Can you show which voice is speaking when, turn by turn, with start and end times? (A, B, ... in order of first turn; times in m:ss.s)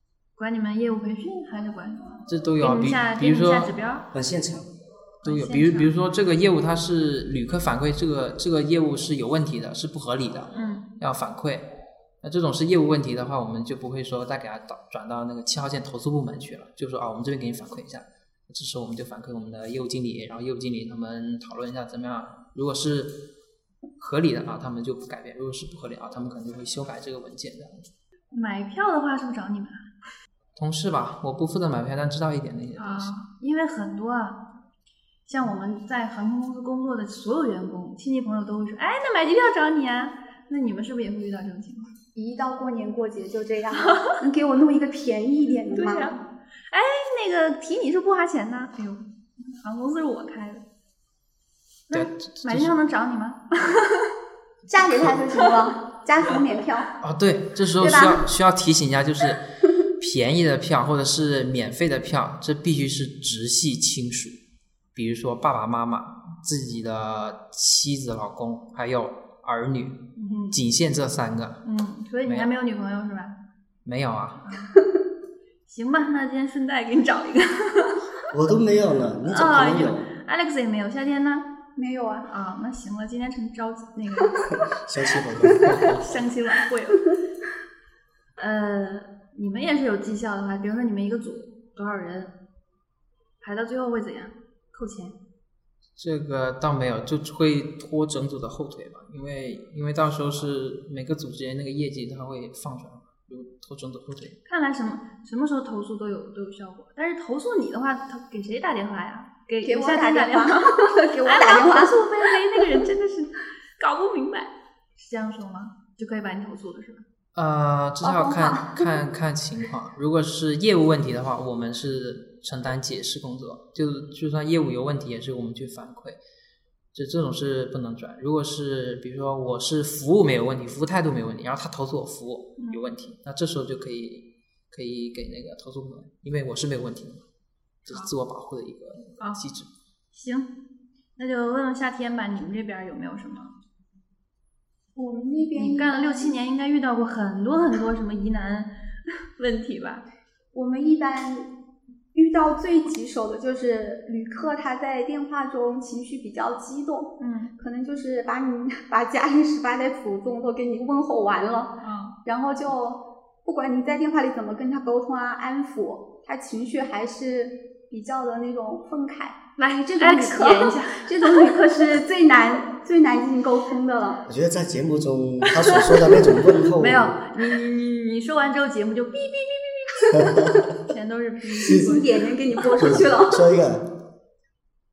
0:00.4-0:04.1 A
0:02.3-0:03.7 B
0:04.1-0:04.7 C
0:05.2-0:11.7 B
0:05.2-0:05.9 A
0:10.5-0:10.9 A
0:12.2-0:23.2 B
0:24.0-0:27.9 B
0:28.3-0:29.8 A
0:30.6-0:33.1 B
0:32.8-0:34.4 A
0:35.2-0:41.9 A
0:42.1-0:46.1 D
0:45.7-0:50.6 A
0:51.9-0:54.1 A
0:51.9-0:52.7 B
0:54.7-0:56.9 D
0:57.0-0:59.4 B
0:57.8-0:58.2 D
1:00.0-1:04.4 B
1:04.9-1:10.0 B
1:10.2-1:10.6 A
1:10.5-1:11.6 B
1:11.6-1:13.4 A
1:13.8-1:14.4 B
1:14.4-1:14.7 A
1:15.6-1:18.0 A
1:18.3-1:20.1 C
1:19.3-1:21.5 A
1:21.8-1:22.3 D
1:22.2-1:24.4 A
1:24.5-1:26.1 C
1:25.9-1:27.0 A
1:28.4-1:32.3 A
1:33.4-1:35.2 A
1:36.0-1:44.4 B
1:44.4-1:57.0 A
1:49.6-1:51.9 D
1:57.3-2:06.2 B
1:58.0-1:59.0 D
2:06.9-2:17.2 B
2:17.8-2:19.7 B
2:20.1-2:20.5 A
2:21.2-2:23.5 A
2:24.9-2:26.4 D
2:25.6-2:28.7 A
2:29.4-2:30.0 A
2:30.5-2:31.5 D
2:32.1-2:54.2 D
2:37.2-2:37.5 A
2:41.8-2:42.2 A
2:49.6-2:51.8 A
2:54.3-2:57.2 C
2:55.6-2:56.2 A
2:56.8-3:03.0 A
3:00.2-3:00.6 C
3:01.6-3:03.4 D
3:02.8-3:03.9 C